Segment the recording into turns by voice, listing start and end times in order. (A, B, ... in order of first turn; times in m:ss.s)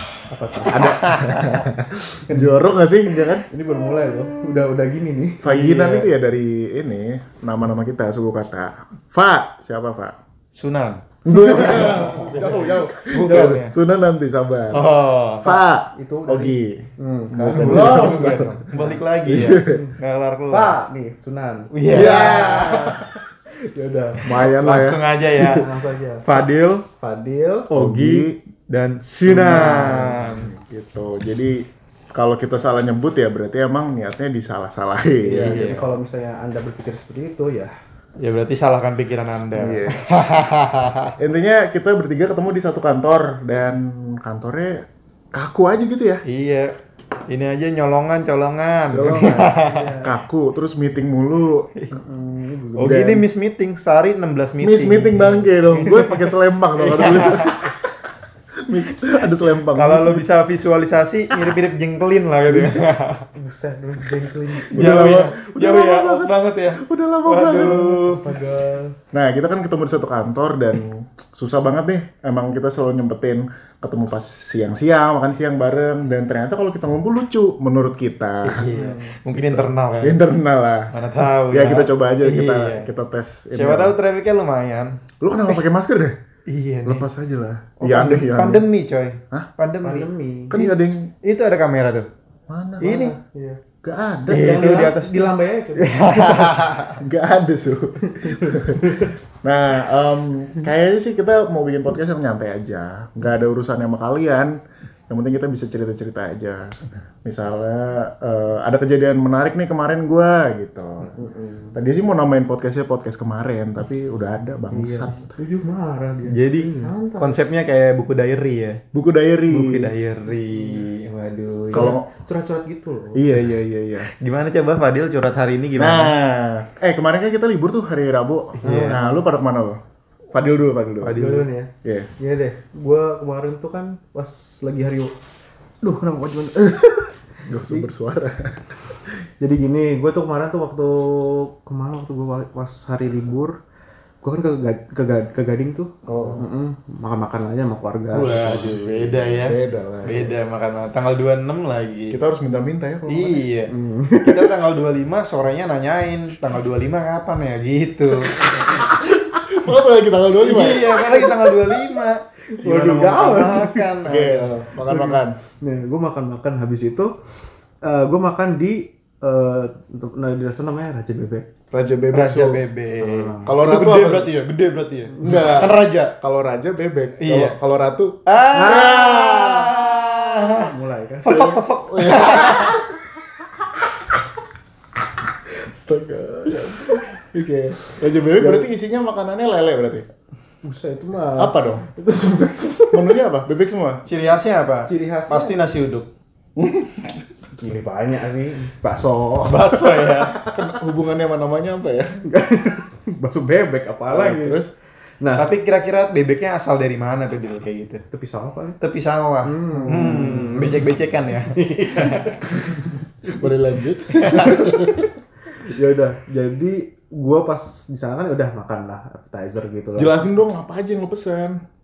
0:00.3-0:01.3 A
0:00.7-0:03.4 B
0:01.0-0:01.6 C
0:02.3-0:02.7 A
0:03.5-0:05.4 A
0:05.4-0:10.2 B
0:05.4-0:06.1 C
0:10.5-0:13.7 C
0:11.2-0:13.6 A
0:11.3-0:18.6 B
0:14.7-0:15.6 C
0:15.9-0:19.0 A
0:17.5-0:20.8 C
0:19.2-0:19.8 B
0:19.7-0:20.0 A
0:20.5-0:24.3 A
0:21.7-0:22.9 C
0:21.9-0:23.0 B
0:24.2-0:25.6 B
0:24.3-0:25.7 C
0:25.4-0:26.4 A
0:26.2-0:26.8 C
0:27.0-0:27.7 A
0:27.7-0:30.5 C
0:27.7-0:28.4 B
0:29.3-0:35.9 B
0:35.2-0:37.7 A
0:35.4-0:36.0 C
0:38.2-0:41.1 C
0:39.5-0:40.0 B
0:41.2-0:46.2 B
0:46.2-0:46.7 C
0:47.3-0:49.9 C
0:48.9-0:51.7 B
0:49.5-0:50.2 A
0:51.9-0:53.1 A
0:52.8-0:57.7 C
0:52.8-0:53.2 B
0:54.6-0:57.9 B
0:58.6-1:00.2 B
0:59.7-1:03.2 C
1:02.5-1:02.8 B
1:03.3-1:05.2 A
1:04.7-1:08.0 B
1:04.7-1:08.2 C
1:07.4-1:09.0 A
1:09.1-1:18.7 B
1:18.4-1:20.2 C
1:18.7-1:19.1 A
1:19.3-1:20.9 B
1:20.9-1:22.9 C
1:21.5-1:23.9 B
1:23.5-1:25.0 C
1:25.2-1:26.2 B
1:26.5-1:27.1 C
1:26.8-1:28.7 B
1:27.8-1:32.1 C
1:29.8-1:30.6 A
1:30.5-1:31.1 B
1:32.5-1:33.0 B
1:32.8-1:33.6 A
1:32.8-1:33.2 C
1:33.8-1:34.7 B
1:34.3-1:37.0 C
1:34.3-1:36.7 A
1:37.0-1:51.2 B
1:38.0-1:39.2 A
1:51.2-1:51.8 A
1:51.7-1:55.4 B
1:54.7-1:57.4 A
1:56.3-1:58.8 C
1:58.9-1:59.9 B
1:59.5-2:01.9 C
2:00.5-2:03.4 A
2:01.7-2:02.1 B
2:03.1-2:04.1 B
2:04.0-2:06.1 C
2:05.8-2:09.8 B
2:08.6-2:09.0 C
2:08.6-2:09.2 A
2:10.3-2:11.2 B
2:11.0-2:11.5 C
2:11.1-2:15.1 A
2:11.8-2:12.1 B
2:15.8-2:17.9 A
2:17.4-2:19.0 B
2:19.4-2:23.6 A
2:24.2-2:28.5 A
2:26.0-2:26.4 B
2:28.1-2:30.4 B
2:28.2-2:32.2 C
2:32.1-2:33.4 B
2:33.1-2:38.4 C
2:33.7-2:34.6 A
2:38.9-2:41.1 B
2:40.4-2:44.6 C
2:40.9-2:41.6 A
2:42.6-2:43.9 A
2:44.0-2:45.4 B
2:44.8-2:47.1 A
2:47.8-2:51.5 A
2:51.7-2:52.6 B
2:52.1-2:56.1 C
2:53.0-2:53.6 A
2:53.4-2:54.3 B
2:55.2-2:59.9 B
2:55.2-2:55.5 A
2:57.2-2:57.6 C
2:58.2-3:00.7 C
2:58.5-3:01.6 A
3:01.2-3:02.8 C
3:01.9-3:02.8 B
3:05.6-3:07.2 A
3:06.8-3:10.0 B
3:07.9-3:08.7 A
3:10.6-3:13.2 A
3:11.4-3:11.9 B
3:12.9-3:14.0 B
3:14.0-3:16.1 C
3:14.9-3:15.6 A
3:16.6-3:17.2 B
3:17.5-3:20.6 A
3:19.4-3:20.4 C
3:20.5-3:22.2 B
3:22.2-3:24.6 A
3:24.1-3:24.7 B
3:25.2-3:25.5 A
3:25.4-3:28.0 C
3:28.1-3:28.8 A
3:28.8-3:32.5 C
3:29.4-3:30.9 A
3:31.5-3:32.9 A
3:33.2-3:35.1 B
3:34.1-3:34.6 C
3:35.5-3:40.2 A
3:40.0-3:41.6 B